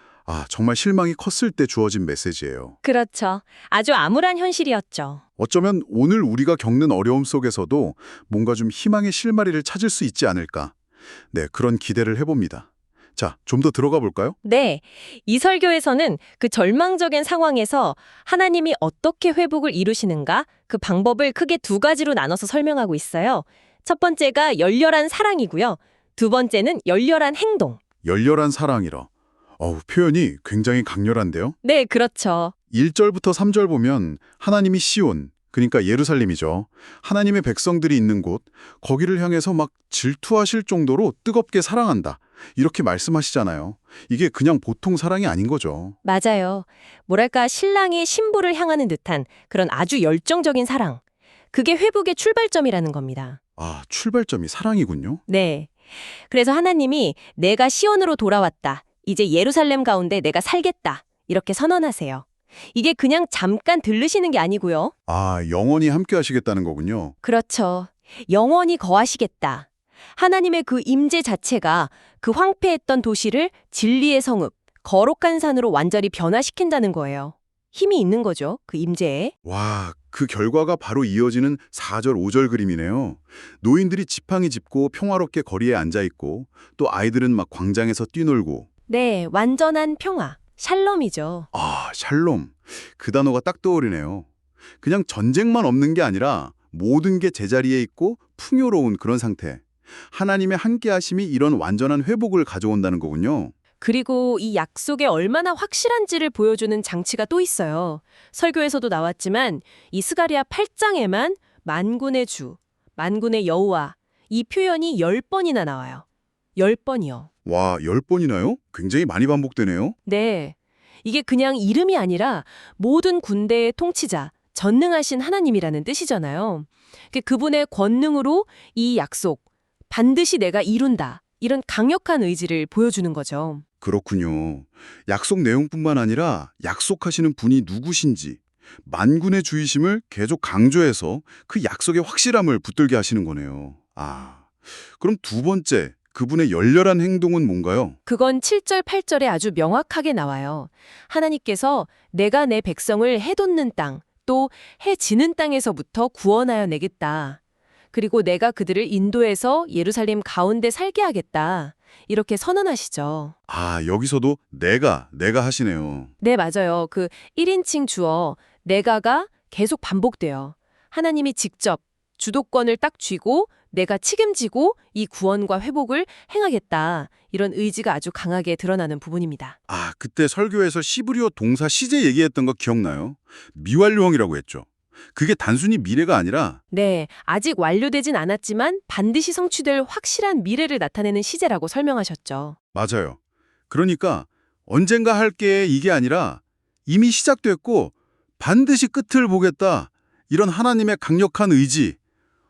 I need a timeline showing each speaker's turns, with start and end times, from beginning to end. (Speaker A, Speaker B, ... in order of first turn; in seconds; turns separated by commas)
Speaker A: 0.2-2.8, Speaker B: 2.8-5.2, Speaker A: 5.4-10.7, Speaker A: 11.3-14.3, Speaker B: 14.4-27.8, Speaker A: 28.0-31.6, Speaker B: 31.6-32.5, Speaker A: 32.7-46.0, Speaker B: 46.0-51.0, Speaker B: 51.5-53.4, Speaker A: 53.6-55.2, Speaker B: 55.3-64.9, Speaker A: 65.1-67.2, Speaker B: 67.2-79.3, Speaker A: 79.4-88.7, Speaker B: 88.9-91.5, Speaker A: 91.5-94.3, Speaker A: 94.8-103.5, Speaker B: 103.8-116.0, Speaker B: 116.5-117.3, Speaker A: 117.5-120.0, Speaker B: 120.0-133.6, Speaker A: 133.8-147.9, Speaker B: 148.1-157.4, Speaker B: 157.9-163.3, Speaker A: 163.5-166.1, Speaker B: 166.2-179.6, Speaker A: 179.7-186.6, Speaker B: 186.7-192.6, Speaker A: 192.7-193.2, Speaker A: 193.7-202.0